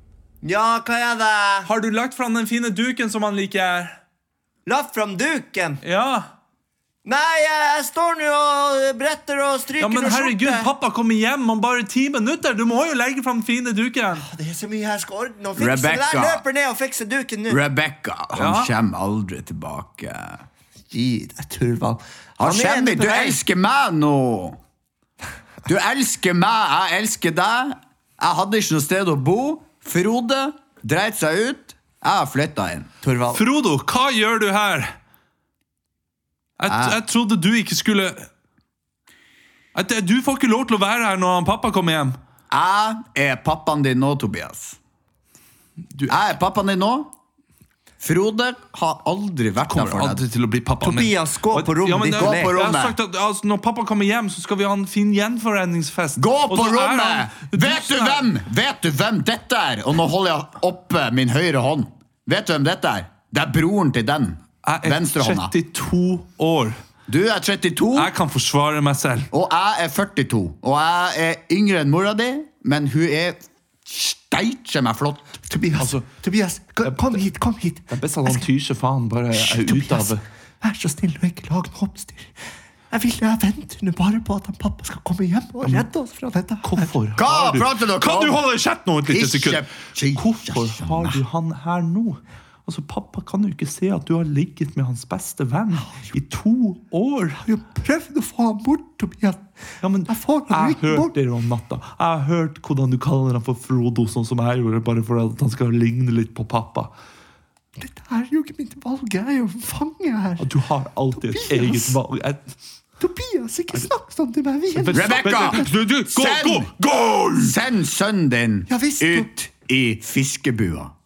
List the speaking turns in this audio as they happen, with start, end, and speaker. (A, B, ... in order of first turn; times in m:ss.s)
0:00.4-0:01.7 A
0:01.6-0:04.0 B
0:04.6-0:05.8 A
0:05.8-0:06.3 B
0:07.0-0:10.7 A
0:09.8-0:14.2 B
0:14.2-0:17.6 A
0:15.6-0:16.4 C
0:17.5-0:20.4 C
0:18.3-0:18.7 B
0:20.9-0:23.4 A
0:22.4-0:24.6 C
0:25.6-0:32.9 C
0:33.0-0:33.4 A
0:33.3-0:34.9 B
0:36.6-0:38.3 B
0:36.7-0:37.0 C
0:39.7-0:42.2 B
0:42.5-0:44.8 C
0:45.9-0:46.3 B
0:46.1-0:47.1 C
0:48.0-0:50.2 C
0:49.7-0:58.3 B
0:50.8-0:52.5 A
0:52.1-0:53.0 C
0:56.2-1:05.5 C
1:04.6-1:06.8 B
1:07.1-1:08.1 C
1:07.9-1:09.3 B
1:09.3-1:15.4 C
1:15.5-1:18.5 A
1:15.8-1:16.1 B
1:16.8-1:17.2 B
1:17.9-1:20.2 B
1:19.3-1:22.3 A
1:22.9-1:26.9 A
1:26.6-1:37.4 B
1:27.2-1:28.4 C
1:29.0-1:31.2 C
1:37.4-1:39.4 A
1:39.8-1:46.9 B
1:40.1-1:41.1 A
1:47.8-1:50.5 A
1:50.4-1:52.4 B
1:51.1-1:52.0 A
1:53.0-1:55.3 A
1:54.7-1:57.6 B
1:54.9-1:56.7 C
1:57.3-2:00.9 C
1:58.7-1:59.4 A